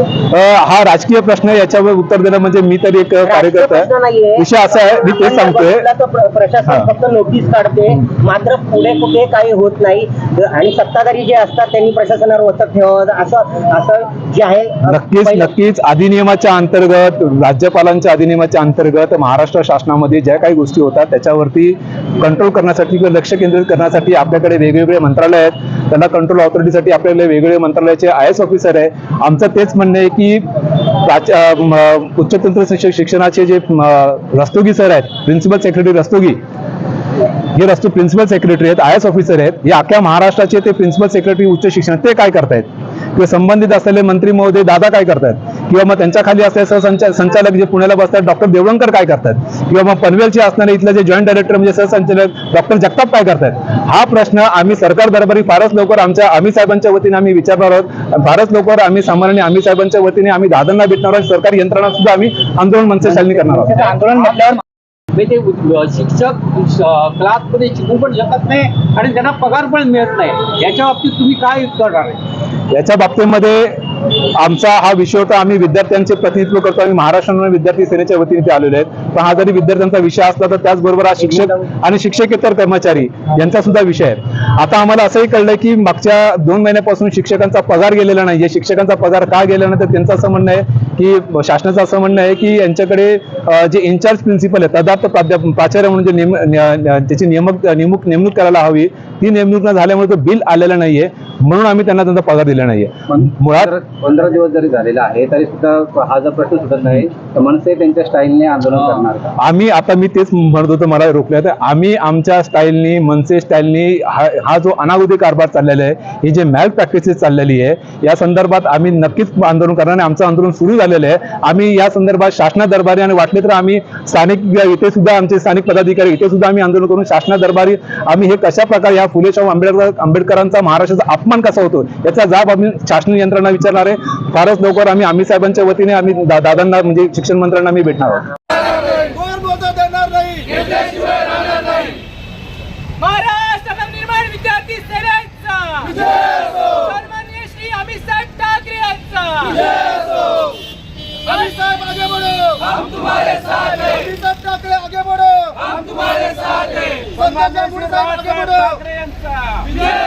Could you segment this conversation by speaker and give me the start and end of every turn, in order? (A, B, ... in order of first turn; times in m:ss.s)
0:00.3-0:05.8 A
0:03.2-0:15.5 B
0:14.9-0:30.4 A
0:31.0-0:36.4 A
0:37.5-1:03.8 A
1:03.8-1:04.4 C
1:05.1-1:12.2 C
1:12.7-1:13.7 A
1:14.4-1:43.7 A
1:43.1-1:49.3 D
1:49.4-2:18.2 A
2:19.2-2:21.6 E
2:23.0-2:30.2 E
2:31.4-2:32.5 E
2:33.5-2:35.5 E
2:36.4-2:38.7 E